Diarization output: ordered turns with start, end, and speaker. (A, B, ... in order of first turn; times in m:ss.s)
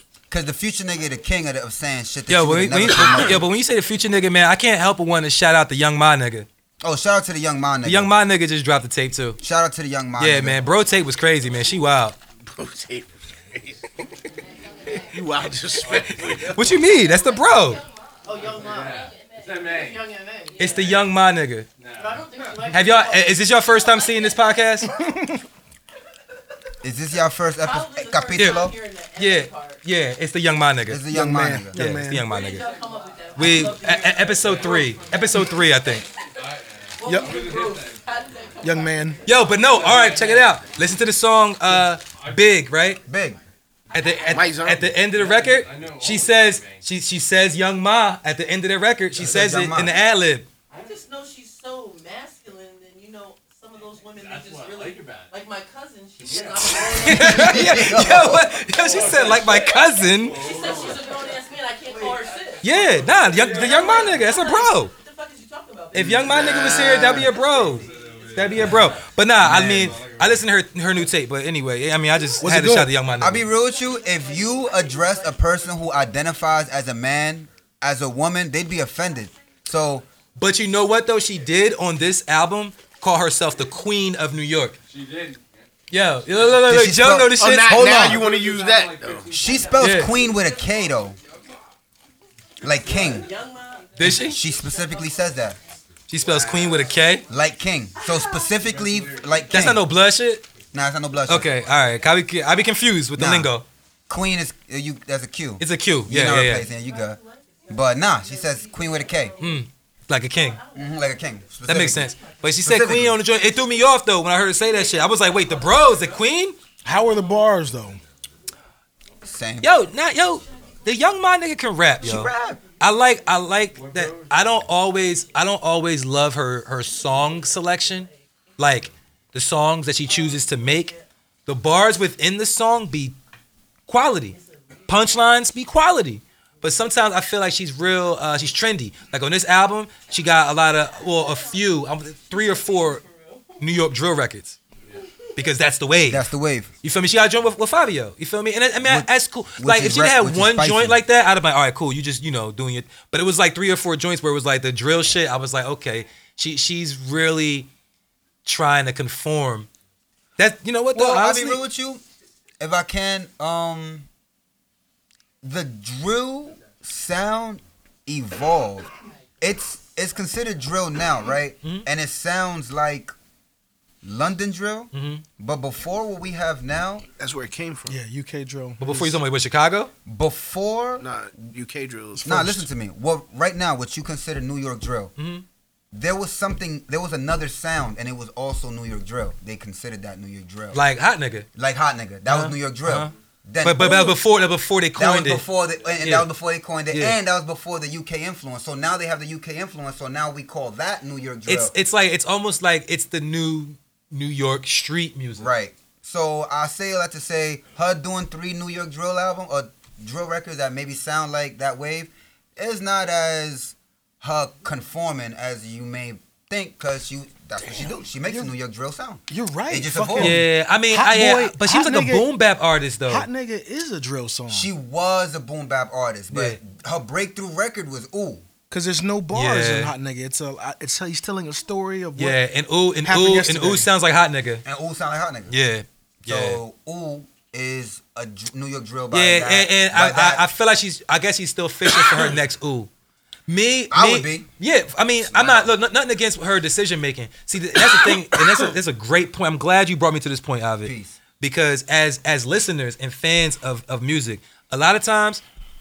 0:00.3-0:03.4 A
0:02.3-0:06.5 B
0:06.8-0:08.1 A
0:07.8-0:09.4 B
0:09.4-0:10.6 A
0:10.2-0:12.2 B
0:12.4-0:13.8 C
0:15.1-0:16.6 C
0:15.9-0:17.8 B
0:18.2-0:20.8 D
0:20.6-0:21.7 B
0:22.0-0:24.3 D
0:22.6-0:24.9 B
0:25.0-0:25.4 E
0:26.8-0:28.8 A
0:27.6-0:29.8 D
0:28.3-0:31.0 B
0:30.9-0:31.8 A
0:31.1-0:32.3 E
0:31.7-0:32.6 B
0:32.3-0:35.4 D
0:33.4-0:36.1 B
0:37.0-0:39.2 D
0:37.0-0:37.4 E
0:38.6-0:39.2 E
0:39.2-0:43.0 B
0:43.1-0:43.4 A
0:43.9-0:50.4 B
0:44.3-0:44.9 C
0:49.2-0:49.9 A
0:50.7-0:58.0 D
0:56.7-1:00.5 B
0:57.0-0:58.5 A
1:00.4-1:06.9 D
1:02.6-1:04.9 B
1:05.9-1:13.4 B
1:06.1-1:07.3 C
1:09.4-1:10.0 A
1:12.4-1:12.9 E
1:13.2-1:20.0 A
1:14.3-1:14.9 D
1:20.4-1:24.8 B
1:25.9-1:28.1 B
1:26.6-1:28.3 A
1:27.4-1:29.3 C
1:29.3-1:31.2 A
1:29.8-1:30.1 B
1:32.6-1:33.3 A
1:33.1-1:34.0 D
1:34.0-1:34.4 B
1:34.0-1:35.6 A
1:36.1-1:37.2 B
1:37.3-1:39.8 A
1:38.0-1:38.4 D
1:39.5-1:40.4 B
1:40.7-1:41.5 A
1:41.3-1:43.6 B
1:43.1-1:43.5 A
1:44.1-1:49.4 A
1:45.6-1:46.6 B
1:48.4-1:49.4 D
1:49.4-1:50.6 B
1:50.6-1:50.9 D
1:50.7-1:52.1 A
1:51.6-1:56.6 B
1:52.6-1:53.2 A
1:56.8-1:58.0 E
1:59.2-1:59.7 A
1:59.6-2:10.9 B
2:02.0-2:02.6 A
2:11.4-2:13.2 B
2:13.9-2:14.4 B
2:14.9-2:23.0 B
2:23.6-2:24.6 B
2:25.4-2:26.2 B
2:26.1-2:26.7 A
2:26.8-2:37.7 B
2:28.8-2:31.0 A
2:38.4-2:39.7 B
2:40.4-2:41.6 B
2:40.9-2:42.0 A
2:42.6-2:44.1 A
2:45.4-2:48.9 A
2:49.4-2:53.1 A
2:54.0-2:57.0 A
2:54.9-2:55.2 B
2:57.2-2:58.0 C
2:57.9-2:59.2 E
2:58.8-2:59.9 B
3:00.0-3:01.0 A
3:01.0-3:02.6 C
3:02.2-3:05.1 A
3:05.2-3:05.4 B
3:05.9-3:10.8 A
3:10.7-3:11.5 B
3:11.6-3:14.2 A
3:12.3-3:13.1 B
3:13.6-3:15.4 B
3:15.0-3:21.7 A
3:16.0-3:16.3 B
3:16.9-3:17.2 B
3:21.5-3:25.5 B
3:25.4-3:40.4 A
3:37.7-3:38.5 E
3:39.3-3:42.3 E
3:40.2-3:43.3 B
3:43.1-3:44.7 E
3:44.5-3:48.4 A
3:48.7-3:52.4 E
3:49.3-3:49.9 B
3:52.2-3:54.6 B
3:53.0-3:53.9 E
3:54.6-3:55.5 A
3:55.5-3:56.6 B
3:56.2-4:00.4 A
3:59.1-4:02.9 B
4:03.5-4:15.4 B
4:03.9-4:04.5 A
4:05.2-4:05.7 A
4:10.8-4:11.2 A